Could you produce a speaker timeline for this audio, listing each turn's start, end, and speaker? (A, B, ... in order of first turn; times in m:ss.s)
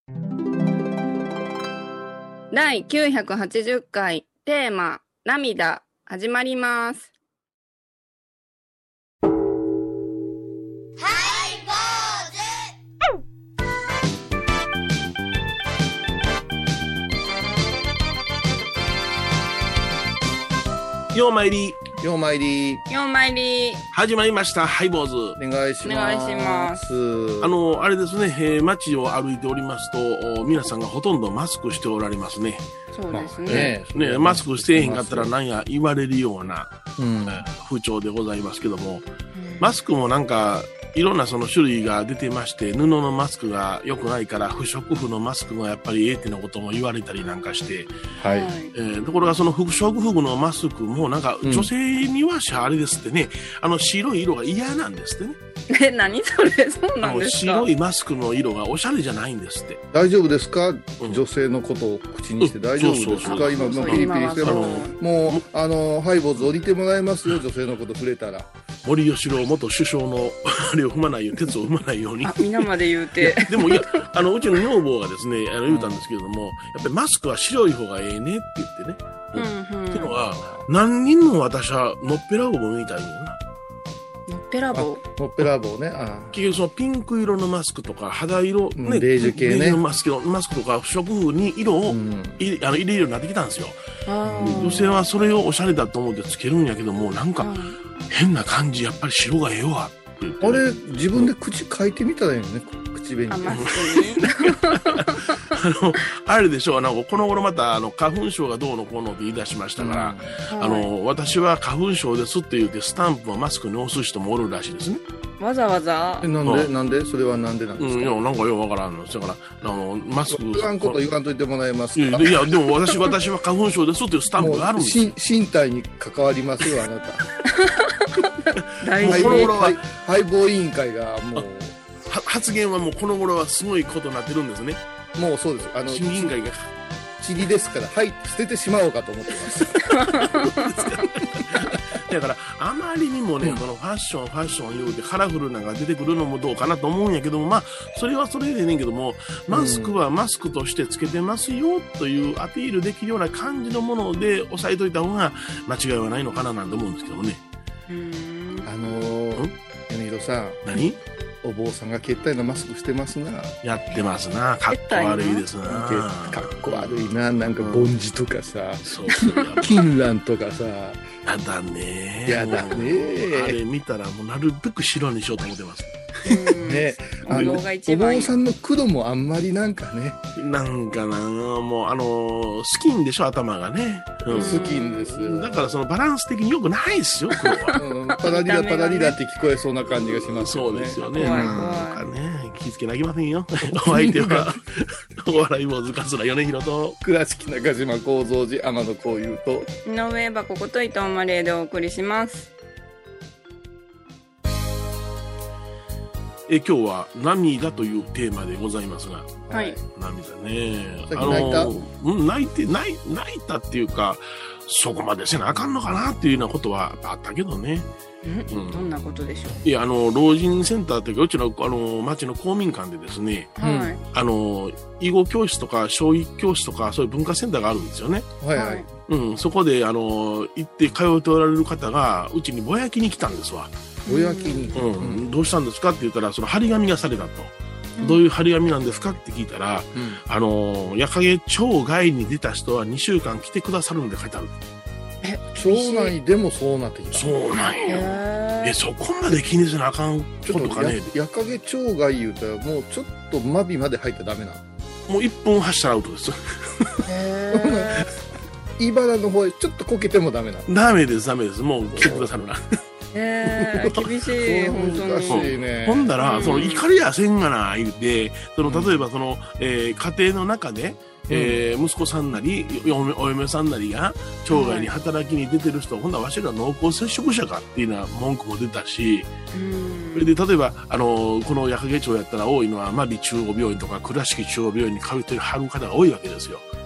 0:02.5-0:07.1 A
0:21.1-0:21.8 B
0:22.0-0:22.8 C
0:22.9-0:23.8 A
0:23.9-0:25.4 B
0:25.4-0:27.6 C
0:25.8-0:26.8 A
0:27.4-0:32.6 B
0:32.9-0:33.7 A
0:33.1-0:35.3 C
0:33.4-0:36.7 B
0:37.0-0:37.4 C
0:37.2-0:39.0 B
0:39.3-0:39.7 A
0:39.6-0:47.9 B
0:48.2-0:48.5 C
0:48.2-0:48.7 A
0:48.7-0:55.4 B
0:51.4-0:51.7 C
0:55.7-0:57.7 A
0:57.0-0:59.8 B
0:59.9-1:08.5 C
1:02.4-1:05.4 B
1:03.2-1:04.9 A
1:08.8-1:23.4 B
1:12.2-1:14.0 A
1:15.7-1:16.0 C
1:19.3-1:20.2 A
1:20.2-1:20.7 C
1:24.3-1:25.0 A
1:24.7-1:26.4 C
1:26.3-1:33.8 B
1:28.8-1:29.8 C
1:31.9-1:32.4 C
1:34.0-1:35.0 A
1:34.3-1:34.7 C
1:34.3-1:37.5 B
1:37.4-1:37.8 A
1:38.1-1:41.3 B
1:40.4-1:43.8 C
1:43.3-1:45.1 A
1:43.5-1:55.0 B
1:49.8-1:50.3 C
1:50.5-1:50.9 A
1:55.4-1:56.3 A
1:56.2-1:58.2 C
1:56.4-1:56.7 B
1:57.8-2:01.0 B
2:00.3-2:02.5 C
2:02.0-2:05.1 B
2:04.4-2:07.2 C
2:07.6-2:09.5 A
2:08.8-2:09.8 B
2:09.0-2:11.8 C
2:12.1-2:14.8 B
2:15.2-2:16.4 C
2:15.9-2:16.6 B
2:17.2-2:19.9 C
2:19.8-2:37.4 B
2:29.5-2:30.0 C
2:37.9-2:38.7 A
2:38.6-2:40.6 C
2:40.6-2:41.0 B
2:41.4-2:43.6 C
2:43.6-2:47.9 B
2:44.7-2:45.4 A
2:45.6-2:51.1 C
2:48.8-2:49.8 B
2:51.2-2:56.6 B
2:52.3-2:53.6 C
2:56.2-2:58.3 A
2:56.6-3:00.2 C
2:57.3-2:57.6 B
3:00.4-3:07.8 B
3:04.3-3:05.7 C
3:04.3-3:05.1 A
3:07.5-3:11.8 C
3:08.1-3:09.2 A
3:10.2-3:17.0 B
3:11.1-3:12.0 A
3:13.7-3:14.5 C
3:17.0-3:19.7 C
3:19.8-3:22.5 A
3:26.5-3:37.9 B
3:29.5-3:29.8 C
3:29.5-3:29.8 A
3:31.1-3:31.7 C
3:38.2-3:39.6 A
3:38.5-3:38.9 B
3:39.6-3:48.3 B
3:43.6-3:44.0 A
3:48.4-3:48.9 C
3:48.5-3:48.8 A
3:49.1-3:53.7 B
3:54.0-3:54.8 A
3:54.0-3:55.3 C
3:54.7-4:04.5 B
3:59.9-4:00.2 C
4:05.2-4:06.1 A
4:05.5-4:07.4 C
4:07.1-4:11.1 B
4:07.8-4:08.8 A
4:10.5-4:14.6 C
4:15.1-4:17.0 B
4:17.0-4:18.1 A
4:17.5-4:18.0 C
4:18.8-4:20.7 C
4:20.7-4:22.8 B
4:22.0-4:22.3 C
4:23.1-4:25.5 A
4:23.6-4:26.2 C
4:23.8-4:24.1 B
4:25.3-4:39.3 B
4:26.2-4:26.8 A
4:28.6-4:29.0 C
4:31.3-4:31.6 C
4:34.5-4:34.9 A
4:39.5-4:40.3 A
4:40.1-4:46.6 B